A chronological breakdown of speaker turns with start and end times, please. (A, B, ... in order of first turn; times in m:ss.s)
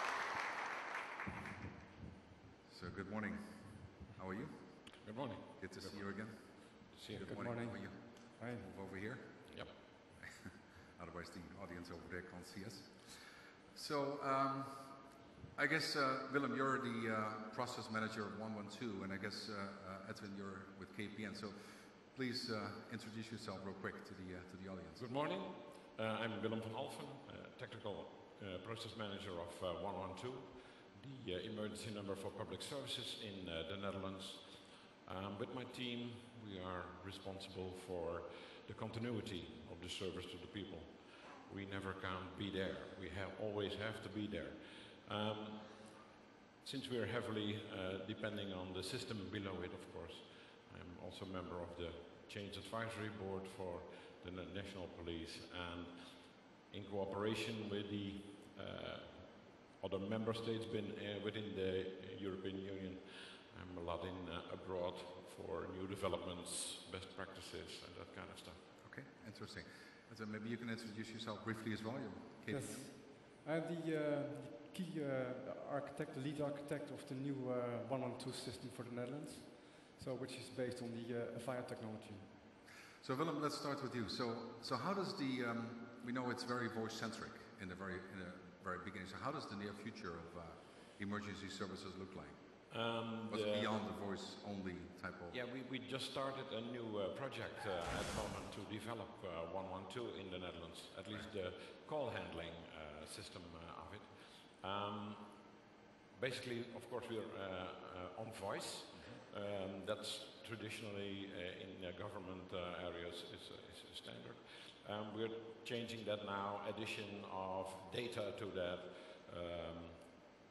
0:02.7-0:05.1 A
0:05.0-0:07.4 B
0:05.6-0:25.0 A
0:07.2-0:08.7 C
0:25.0-0:45.9 B
0:46.6-1:08.7 B
1:08.8-1:12.9 A
1:12.5-1:22.3 C
1:23.0-1:32.6 A
1:32.7-1:33.8 B
1:33.3-1:35.4 A
1:35.3-1:45.5 B
1:46.1-2:00.2 B
1:48.9-1:49.2 A